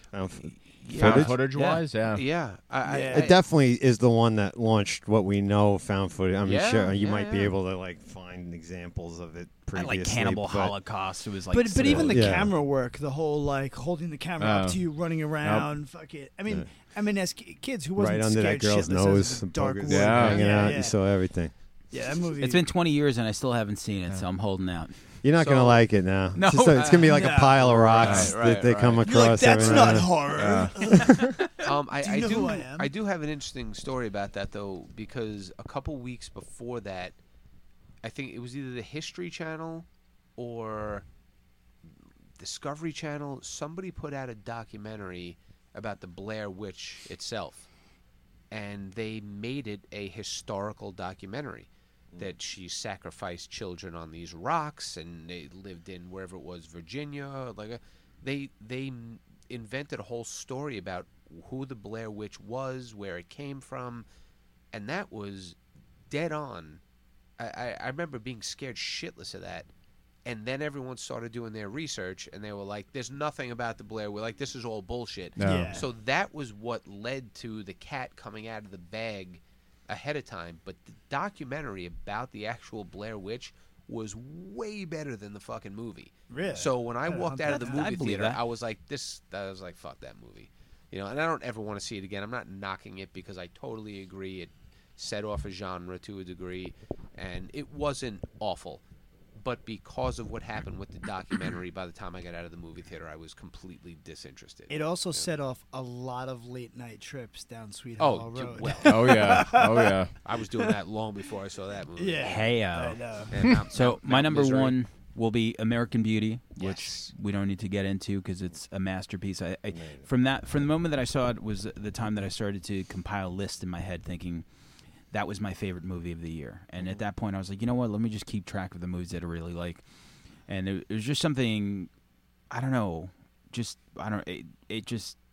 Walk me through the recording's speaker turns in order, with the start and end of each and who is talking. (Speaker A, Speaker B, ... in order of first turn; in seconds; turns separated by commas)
Speaker A: 0.1-1.4, Speaker B: 0.5-1.8, Speaker C: 0.9-2.2, Speaker D: 2.1-3.4, Speaker E: 2.9-3.3, Speaker A: 3.1-10.8, Speaker D: 6.4-7.5, Speaker B: 9.7-12.3, Speaker E: 11.5-20.9, Speaker A: 11.8-12.5, Speaker C: 14.4-14.8, Speaker C: 15.4-15.7, Speaker A: 17.9-21.5, Speaker C: 19.9-20.4, Speaker D: 20.2-20.4, Speaker E: 21.9-22.6, Speaker B: 22.4-24.9, Speaker A: 25.2-30.3, Speaker D: 25.4-25.8, Speaker B: 26.3-26.9, Speaker D: 26.7-29.9, Speaker E: 27.1-28.0, Speaker C: 28.0-28.3, Speaker E: 29.0-32.9, Speaker C: 30.3-30.7, Speaker A: 30.9-31.3, Speaker D: 31.6-37.1, Speaker D: 38.0-39.9, Speaker D: 40.4-41.0, Speaker D: 42.4-47.7, Speaker D: 48.5-64.0, Speaker D: 64.7-65.6, Speaker D: 66.1-66.8, Speaker D: 67.4-69.7, Speaker D: 70.2-98.8, Speaker C: 75.4-75.8, Speaker E: 75.4-75.8, Speaker E: 86.3-87.9, Speaker B: 87.5-88.4, Speaker D: 99.3-105.3, Speaker E: 104.7-110.0, Speaker D: 108.0-109.4, Speaker C: 108.8-110.1, Speaker D: 110.2-112.3, Speaker E: 112.0-113.4, Speaker B: 112.2-124.5, Speaker D: 113.3-114.8, Speaker D: 116.6-117.1, Speaker A: 119.7-120.1, Speaker B: 125.1-129.8, Speaker B: 130.5-131.9, Speaker B: 132.5-135.2